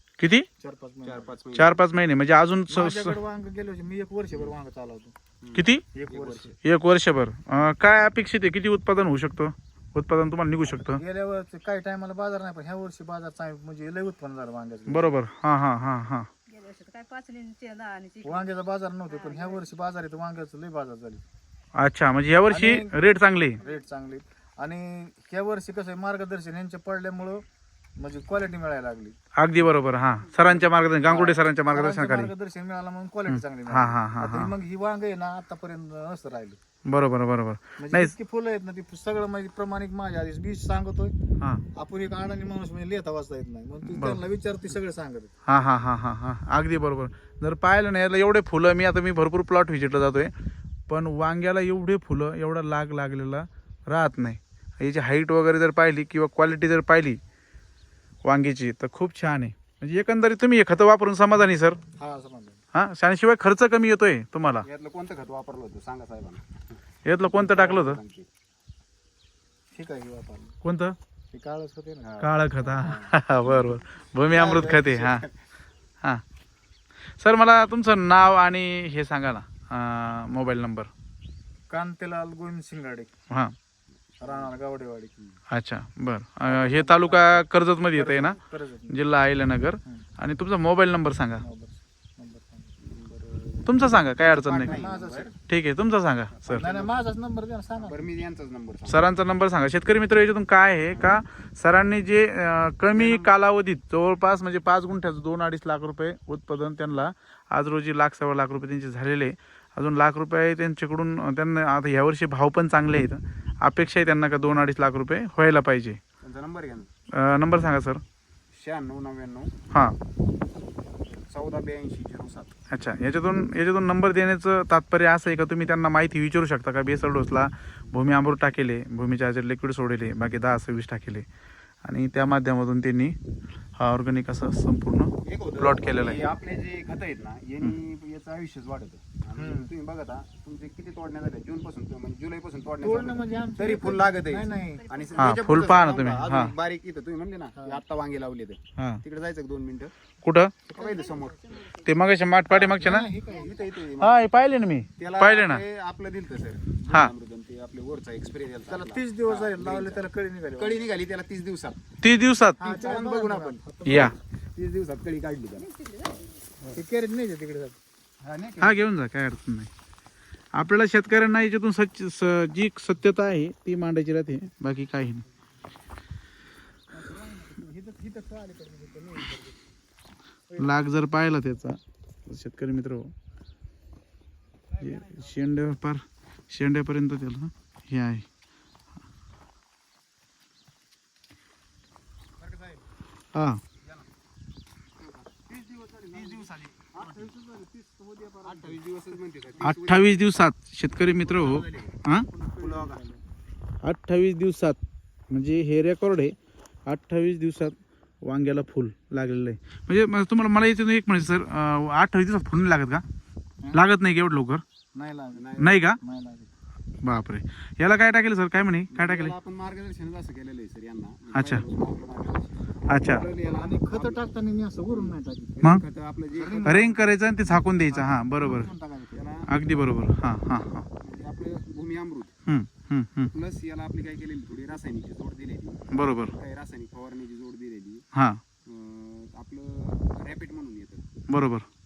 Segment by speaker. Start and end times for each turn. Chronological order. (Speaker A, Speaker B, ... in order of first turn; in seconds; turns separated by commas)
Speaker A: 0.2-0.5, Speaker B: 0.6-1.3, Speaker C: 1.0-1.8, Speaker A: 1.5-3.2, Speaker B: 2.7-5.1, Speaker C: 5.4-6.6, Speaker A: 5.5-5.8, Speaker B: 5.9-6.5, Speaker A: 6.6-11.0, Speaker B: 10.6-15.2, Speaker A: 14.9-16.3, Speaker D: 16.5-18.4, Speaker B: 18.2-21.2, Speaker D: 19.2-19.6, Speaker A: 21.8-23.6, Speaker B: 22.5-22.9, Speaker B: 23.6-27.4, Speaker B: 28.0-29.1, Speaker A: 29.4-32.3, Speaker B: 31.0-36.6, Speaker A: 33.3-34.5, Speaker A: 36.9-38.1, Speaker B: 37.8-41.1, Speaker B: 41.7-45.3, Speaker A: 43.8-44.2, Speaker A: 45.5-50.3, Speaker A: 50.9-57.2, Speaker A: 58.2-61.8, Speaker B: 62.0-62.6, Speaker A: 62.7-64.7, Speaker C: 64.6-66.7, Speaker A: 67.0-68.0, Speaker C: 67.3-68.3, Speaker B: 69.7-70.5, Speaker A: 70.6-71.0, Speaker B: 71.3-73.1, Speaker C: 72.0-72.3, Speaker A: 72.2-75.2, Speaker C: 73.5-75.3, Speaker A: 77.2-80.9, Speaker B: 81.7-83.1, Speaker C: 84.1-84.5, Speaker B: 84.2-85.1, Speaker A: 85.5-91.4, Speaker B: 86.5-89.0, Speaker B: 91.4-92.7, Speaker C: 92.8-95.3, Speaker A: 93.7-94.8, Speaker B: 94.6-95.3, Speaker A: 95.5-96.7, Speaker C: 96.3-97.0, Speaker B: 96.5-98.1, Speaker C: 97.8-99.1, Speaker A: 98.9-116.0, Speaker C: 100.9-101.2, Speaker C: 102.9-103.4, Speaker C: 116.2-116.9, Speaker A: 117.1-118.0, Speaker C: 118.5-119.5, Speaker A: 119.7-120.0, Speaker C: 121.3-122.5, Speaker A: 122.7-131.2, Speaker A: 131.8-133.2, Speaker A: 133.8-136.2, Speaker C: 135.2-149.9, Speaker B: 139.3-139.7, Speaker B: 142.8-144.8, Speaker D: 144.8-145.6, Speaker A: 145.2-146.5, Speaker A: 150.2-150.5, Speaker C: 150.7-151.7, Speaker D: 150.8-152.0, Speaker A: 151.8-153.1, Speaker B: 152.5-153.8, Speaker C: 153.3-154.3, Speaker A: 154.0-155.6, Speaker C: 155.0-160.0, Speaker B: 158.7-160.8, Speaker C: 160.6-161.8, Speaker A: 162.0-162.8, Speaker B: 162.6-164.1, Speaker C: 162.6-166.8, Speaker A: 163.8-164.1, Speaker B: 166.7-167.8, Speaker C: 168.2-168.8, Speaker A: 168.6-169.7, Speaker A: 170.5-175.2, Speaker B: 176.9-179.6, Speaker B: 180.5-180.8, Speaker A: 180.6-183.1, Speaker A: 184.8-188.2, Speaker C: 184.9-185.2, Speaker C: 192.4-192.8, Speaker A: 193.3-193.6, Speaker C: 195.1-200.2, Speaker B: 198.4-198.7, Speaker A: 199.6-202.3, Speaker C: 201.2-203.2, Speaker B: 202.4-203.1, Speaker A: 203.8-204.8, Speaker A: 205.3-206.3, Speaker A: 206.9-213.0, Speaker A: 213.7-214.6, Speaker B: 214.9-215.4, Speaker C: 215.3-215.8, Speaker A: 215.6-216.0, Speaker B: 216.0-216.5, Speaker A: 217.0-219.3, Speaker C: 218.9-224.2, Speaker A: 221.3-221.6, Speaker A: 222.9-223.2, Speaker B: 223.5-225.7, Speaker C: 224.9-227.0, Speaker B: 226.3-226.9, Speaker A: 226.6-228.7, Speaker B: 227.9-229.2, Speaker C: 229.1-229.5, Speaker A: 229.5-230.9, Speaker C: 231.0-232.3, Speaker A: 232.5-233.3, Speaker C: 233.3-238.0, Speaker A: 235.9-236.3, Speaker A: 238.1-238.4, Speaker C: 238.7-241.1, Speaker A: 241.3-241.7